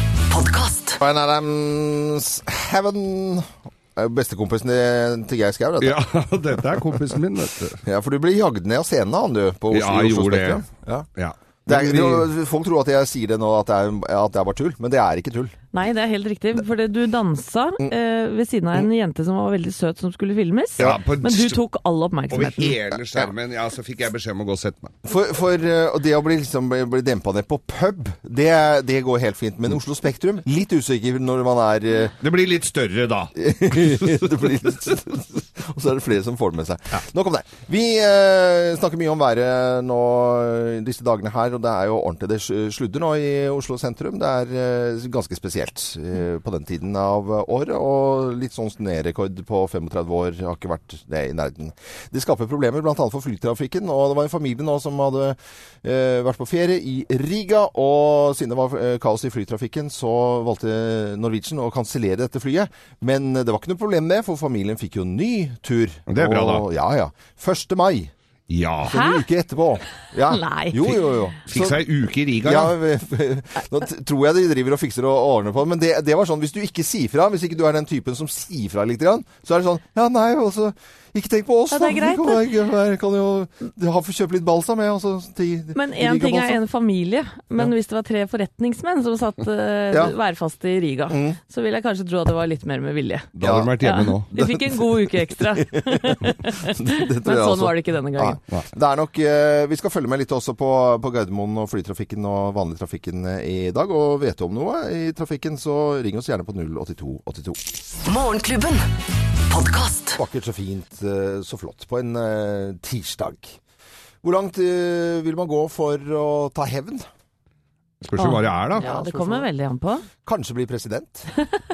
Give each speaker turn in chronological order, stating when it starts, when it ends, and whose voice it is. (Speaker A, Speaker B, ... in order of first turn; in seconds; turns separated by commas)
Speaker A: 0.3-1.0, Speaker B: 1.0-6.0, Speaker C: 5.8-7.8, Speaker B: 7.8-11.1, Speaker C: 9.7-12.3, Speaker B: 11.7-15.6, Speaker D: 15.7-22.8, Speaker C: 20.8-21.6, Speaker C: 22.3-24.9, Speaker B: 25.0-32.1, Speaker C: 32.2-34.0, Speaker B: 33.4-68.1, Speaker C: 66.1-66.7, Speaker C: 68.5-69.0, Speaker B: 68.9-71.8, Speaker D: 68.9-69.2, Speaker D: 70.2-70.9, Speaker C: 71.5-72.7, Speaker B: 72.4-86.6, Speaker D: 81.7-82.5, Speaker D: 85.7-98.4, Speaker B: 91.1-91.4, Speaker C: 93.3-94.3, Speaker B: 93.4-93.8, Speaker B: 94.3-107.6, Speaker A: 108.0-108.8, Speaker A: 109.5-110.2, Speaker B: 110.2-113.6, Speaker B: 114.2-117.1, Speaker C: 118.0-118.9, Speaker D: 118.2-120.1, Speaker B: 118.8-119.5, Speaker B: 120.2-121.3